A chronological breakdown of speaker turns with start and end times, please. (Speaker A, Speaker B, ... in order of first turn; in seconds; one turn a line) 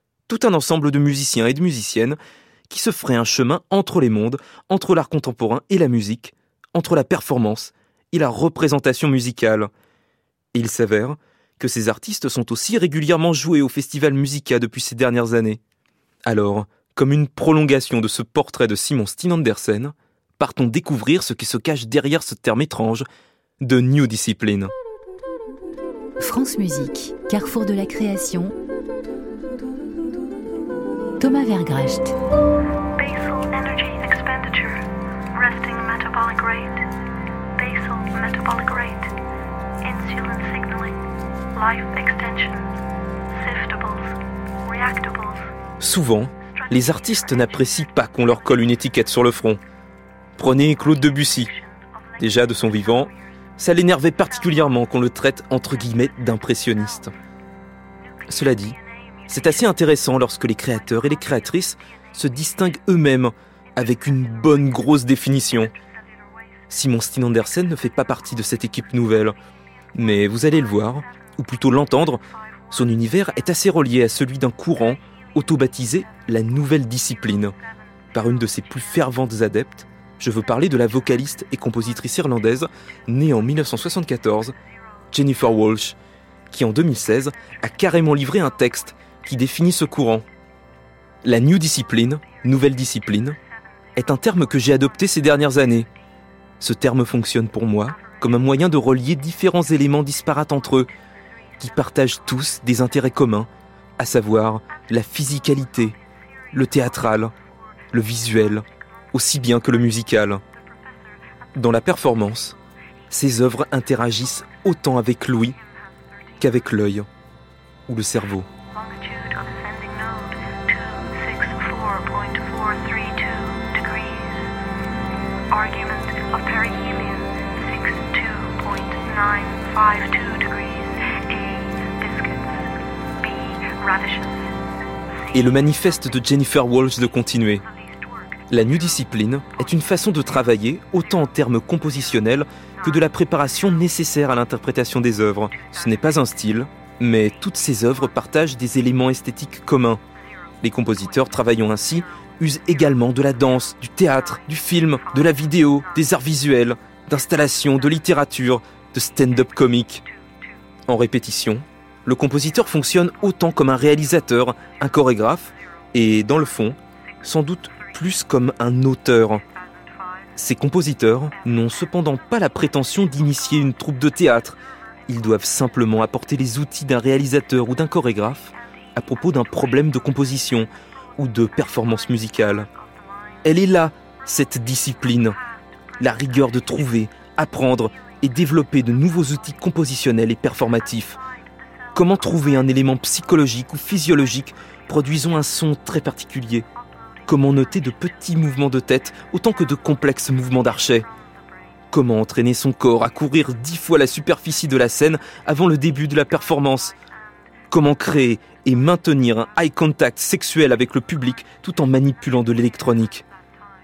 Speaker A: 0.3-2.2
Speaker A: 2.7-9.7
Speaker A: 10.5-15.6
Speaker A: 16.2-23.1
Speaker A: 23.6-24.7
Speaker B: 26.2-28.5
Speaker B: 31.2-32.1
Speaker C: 33.0-36.8
Speaker C: 37.6-39.1
Speaker C: 39.8-41.0
Speaker C: 41.5-42.7
Speaker C: 43.3-45.5
Speaker A: 45.8-49.6
Speaker C: 46.7-47.6
Speaker A: 50.4-51.5
Speaker A: 52.2-57.1
Speaker C: 52.4-52.7
Speaker A: 58.3-58.8
Speaker A: 59.3-65.7
Speaker A: 66.7-69.3
Speaker A: 69.9-77.5
Speaker A: 78.1-84.5
Speaker A: 85.1-86.0
Speaker A: 86.5-90.2
Speaker A: 91.2-93.4
Speaker A: 94.0-95.9
Speaker A: 96.6-100.9
Speaker A: 101.6-106.0
Speaker A: 106.5-107.3
Speaker A: 107.9-110.4
Speaker A: 111.5-112.5
Speaker A: 113.1-115.6
Speaker A: 116.4-117.1
Speaker A: 117.9-118.5
Speaker C: 118.7-124.5
Speaker C: 125.5-132.6
Speaker C: 133.2-134.4
Speaker C: 135.3-136.0
Speaker A: 135.3-137.6
Speaker C: 137.9-138.3
Speaker A: 138.5-150.0
Speaker A: 150.6-160.0
Speaker A: 160.9-169.4
Speaker A: 170.3-174.6
Speaker A: 175.1-182.7
Speaker A: 183.4-185.3
Speaker A: 186.0-191.2
Speaker A: 191.9-196.7
Speaker A: 197.3-201.1
Speaker A: 201.9-206.9
Speaker A: 207.7-213.2